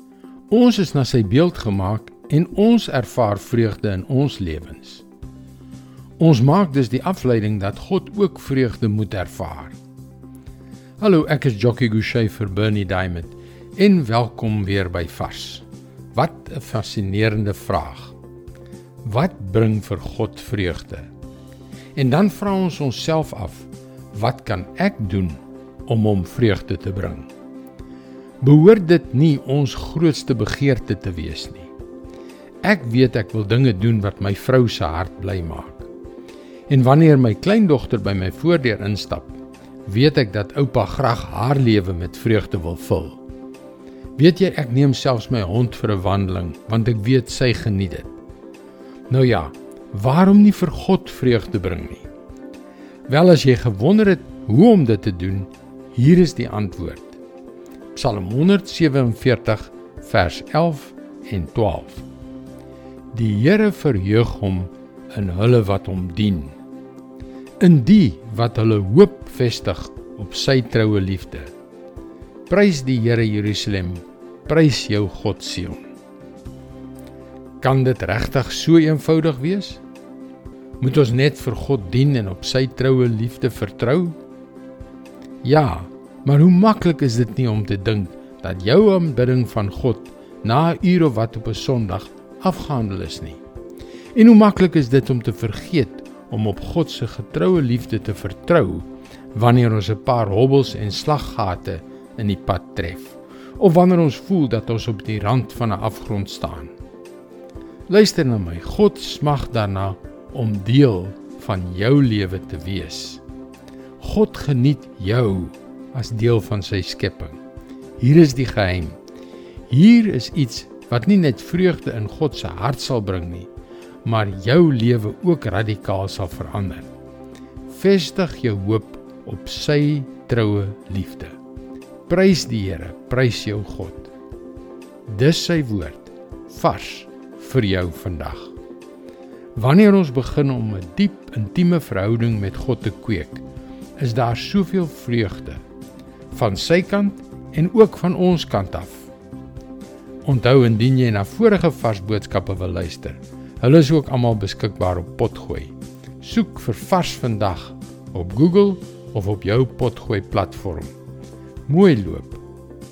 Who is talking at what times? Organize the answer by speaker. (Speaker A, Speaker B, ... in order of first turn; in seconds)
Speaker A: 0.5-5.0, 6.2-9.8, 11.0-18.1, 19.0-21.1, 21.9-27.3, 28.4-31.7, 32.6-35.9, 36.7-43.2, 44.2-48.1, 49.1-52.1, 53.1-57.2, 57.9-62.0, 63.1-66.5, 67.6-71.5, 72.5-75.8, 77.6-79.8, 80.8-84.2, 85.4-93.4, 94.1-106.7, 107.9-113.2, 114.0-117.4, 118.0-119.0, 119.7-123.5, 124.0-126.9, 127.7-131.3, 132.1-134.1, 135.1-138.5, 139.6-143.4, 144.0-145.6, 146.3-149.1, 150.2-160.9, 161.7-162.4